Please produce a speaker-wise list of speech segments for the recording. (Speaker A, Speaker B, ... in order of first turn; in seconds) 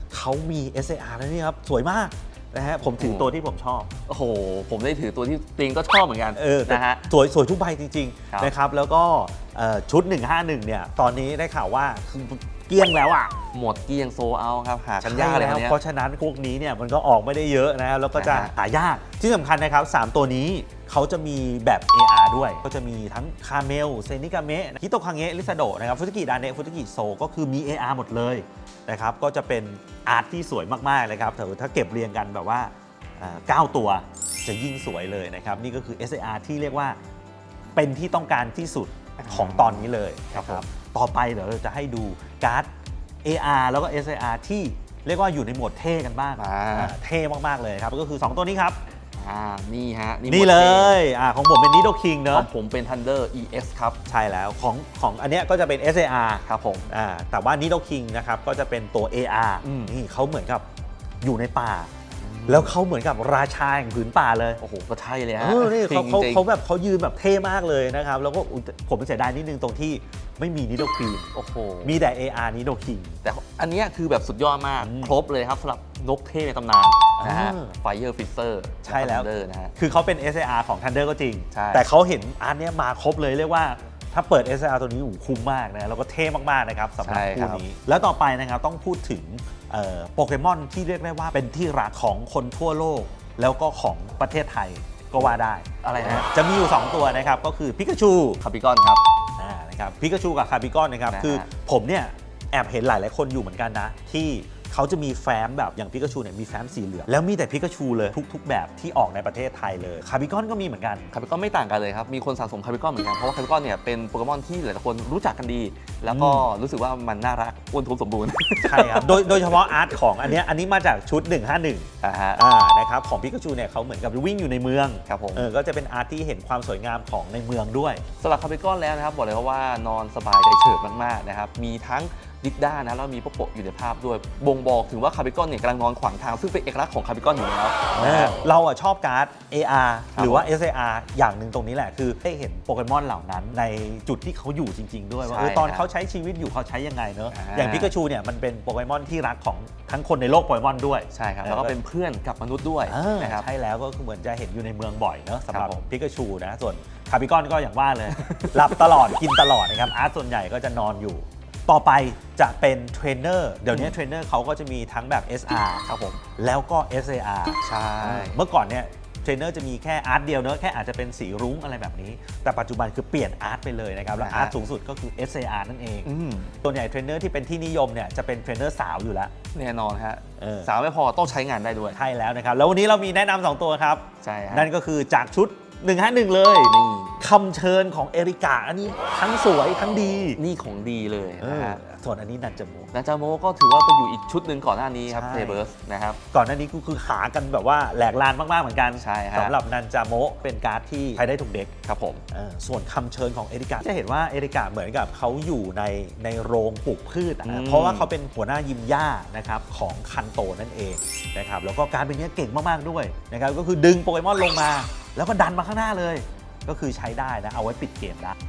Speaker A: 0.1-3.9, 6.3-13.3, 15.0-37.0, 37.8-42.7, 43.2-48.8, 50.3-52.5, 54.0-60.6, 61.2-61.9, 62.5-64.6, 65.4-71.3, 71.8-73.2, 74.8-75.2, 77.2-77.7, 78.8-98.4, 99.4-111.1, 116.1-116.5, 118.6-128.0, 137.9-151.8, 152.9-165.8, 166.4-176.1, 176.6-179.3, 180.4-180.7, 181.9-190.4, 191.4-192.9, 195.1-195.6, 196.3-201.7, 202.3-218.3
Speaker B: 2.8-3.3, 4.1-7.1, 13.5-15.8, 18.1-18.5, 39.2-40.6, 46.4-46.9, 49.2-51.0, 52.3-54.0, 56.5-56.9, 59.6-59.9, 62.2-62.7, 64.6-66.4, 71.3-71.9, 73.2-79.7, 81.5-81.8, 87.0-87.6, 95.2-96.3, 98.4-99.0, 101.1-101.5, 111.1-120.0, 122.0-122.4, 125.1-125.5, 128.2-138.5, 140.1-140.5, 145.2-145.9, 147.3-147.9, 151.1-153.4, 155.5-155.8, 158.2-159.1, 163.7-163.9, 165.8-166.2, 167.6-168.4, 174.2-174.5, 176.0-176.5, 179.5-182.0, 184.2-184.7, 186.6-187.2, 190.3-191.8, 192.9-196.2, 198.9-199.5, 201.8-202.2, 207.4-208.1